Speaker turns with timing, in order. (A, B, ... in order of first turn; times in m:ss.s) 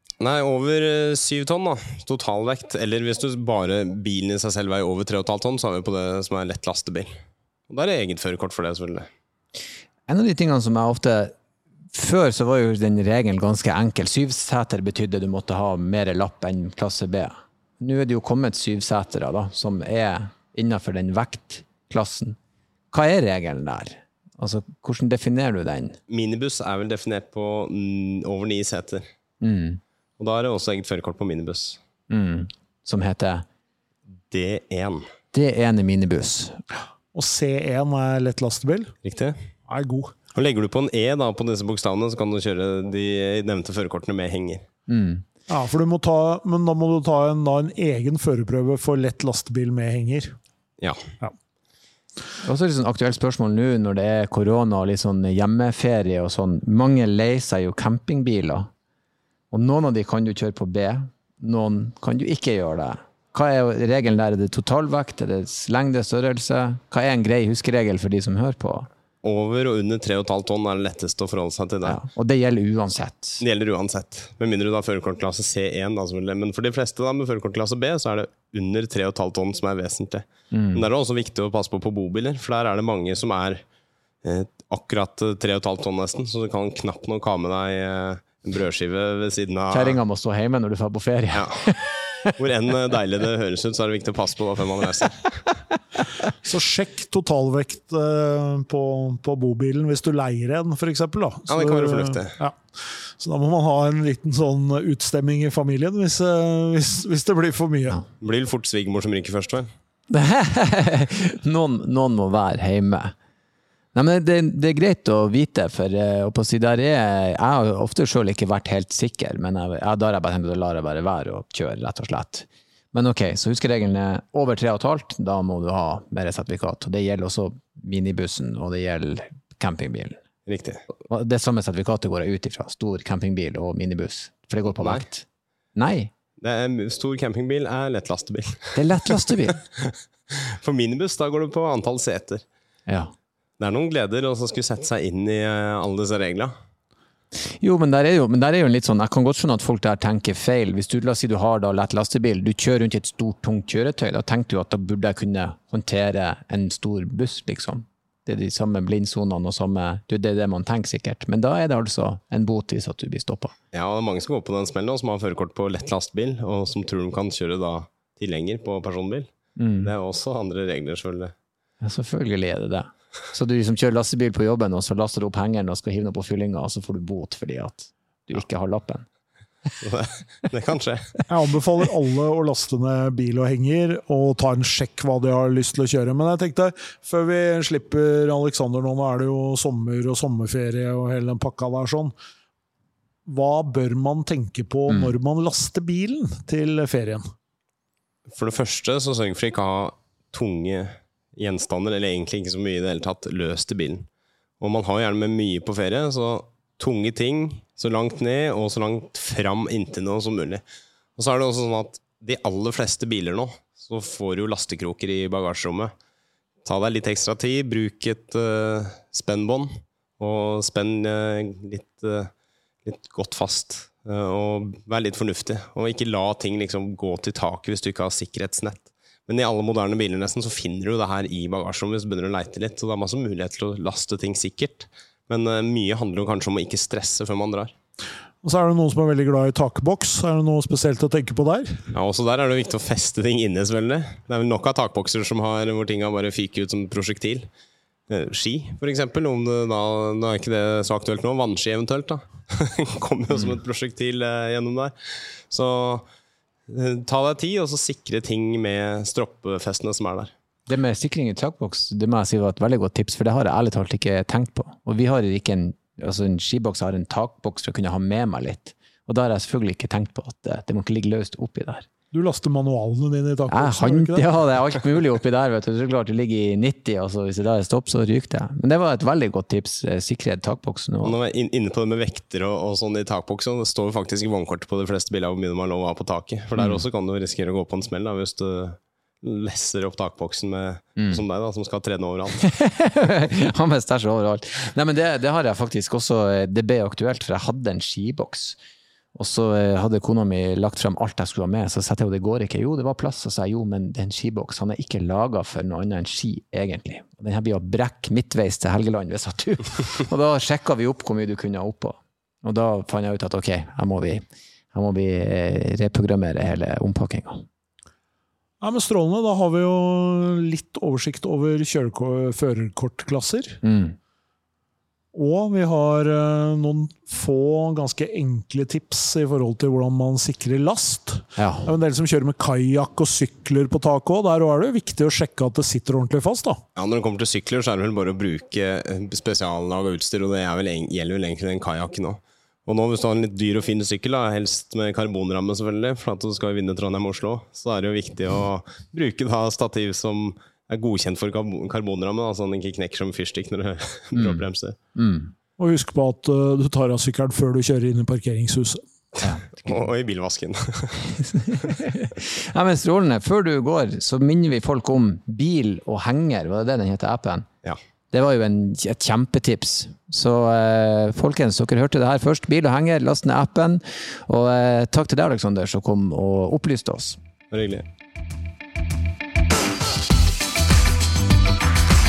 0:00.2-0:07.1 A
0:07.7-0:09.1 A
0:10.1-0:11.3 B
0:11.9-0:22.4 B
0:22.9-0:26.0 B
0:26.1-0:29.0 A
0:29.4-0:29.8 B
0:30.2-0:31.8 A
0:32.1-0:33.4 B
0:34.3-0:35.0 A
0:35.3-0:36.6 B
0:37.1-0:38.9 C
0:39.0-0:39.3 A
0:39.7-0:40.1 C
0:40.3-0:44.6 A
0:44.9-0:45.2 B
0:45.5-0:50.4 C
0:52.4-0:58.7 B
0:59.5-1:08.9 B
1:09.2-1:12.0 A
1:11.8-1:13.4 B
1:13.4-1:23.6 A
1:20.5-1:20.9 B
1:24.2-1:30.0 A
1:29.7-1:32.3 B
1:31.3-1:31.6 A
1:32.4-1:35.4 A
1:36.4-1:48.0 C
1:41.5-1:42.4 A
1:48.2-1:49.7 A
1:50.1-1:53.1 B
1:53.9-2:10.2 B
2:10.5-2:10.8 A
2:11.1-2:16.1 B
2:14.7-2:15.0 A
2:16.4-2:20.0 A
2:18.7-2:19.6 B
2:20.6-2:22.4 A
2:23.6-2:26.5 A
2:27.6-2:43.5 B
2:43.7-2:51.3 A
2:49.6-2:49.9 B
2:51.8-2:59.0 B
2:59.8-3:01.1 A
3:01.3-3:12.1 C
3:13.2-3:17.2 C
3:14.9-3:15.1 B
3:18.3-3:24.1 A
3:24.6-3:30.6 A
3:31.2-3:35.9 A
3:36.6-3:39.7 A
3:40.2-3:42.3 A
3:42.8-3:57.7 A
3:58.4-4:01.9 C
4:01.9-4:07.5 A
4:08.1-4:16.0 A
4:16.7-4:20.3 A
4:20.7-4:31.9 B
4:32.1-4:34.2 C
4:33.5-4:41.2 B
4:41.0-4:52.5 A
4:46.6-4:46.8 B
4:51.0-4:51.2 B
4:52.4-4:58.6 B
4:59.1-5:17.4 B
5:18.6-5:23.6 C
5:23.6-5:24.0 B
5:25.1-5:36.6 C
5:31.4-5:31.7 B
5:36.7-5:54.8 A
5:54.1-5:55.3 B
5:55.6-5:58.8 C
5:59.2-5:59.7 B
5:59.5-6:01.7 A
6:01.4-6:07.5 B
6:08.1-6:17.2 B
6:17.5-6:17.8 A